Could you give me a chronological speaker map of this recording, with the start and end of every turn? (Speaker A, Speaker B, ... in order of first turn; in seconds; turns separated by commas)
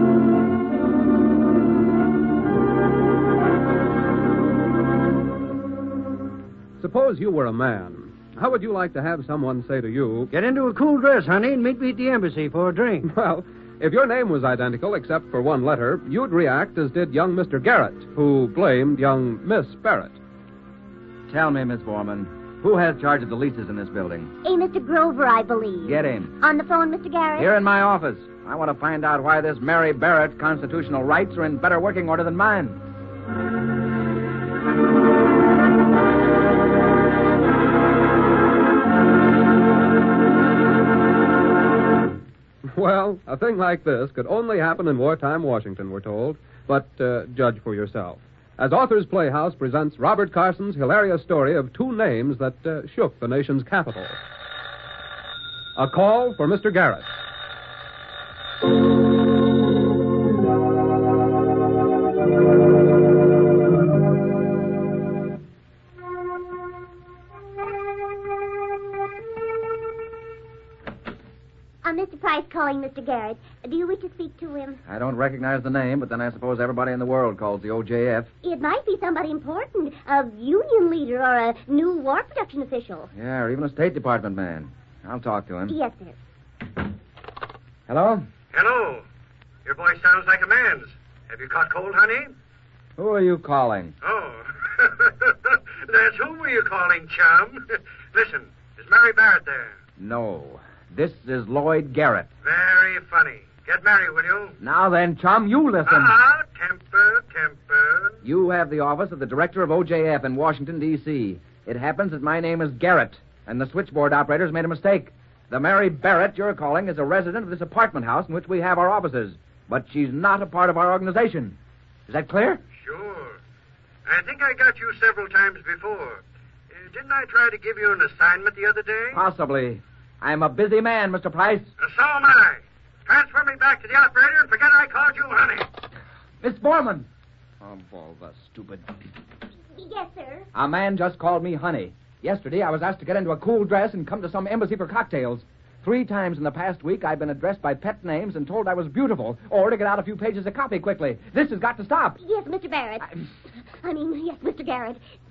Speaker A: 6.8-10.3, Speaker B: 10.3-13.1, Speaker A: 13.0-20.2, Speaker C: 21.3-24.3, Speaker D: 24.4-27.5, Speaker C: 25.8-26.4, Speaker C: 27.4-32.8, Speaker A: 42.6-54.2, Speaker A: 55.8-57.1, Speaker D: 71.8-74.8, Speaker C: 74.8-78.3, Speaker D: 78.4-83.1, Speaker C: 83.1-85.8, Speaker D: 85.7-86.1, Speaker C: 87.9-88.3, Speaker E: 88.5-89.0, Speaker E: 89.6-92.3, Speaker C: 93.0-93.9, Speaker E: 94.0-99.8, Speaker C: 100.0-102.3, Speaker E: 102.4-104.5, Speaker C: 104.6-106.2, Speaker E: 105.8-108.2, Speaker C: 108.2-121.6, Speaker C: 122.1-122.6, Speaker E: 122.8-123.4, Speaker E: 124.0-129.2, Speaker C: 129.1-131.7, Speaker E: 131.8-135.7, Speaker C: 136.4-137.1, Speaker C: 137.6-138.8, Speaker D: 139.8-140.4, Speaker C: 140.5-152.2, Speaker D: 152.2-155.0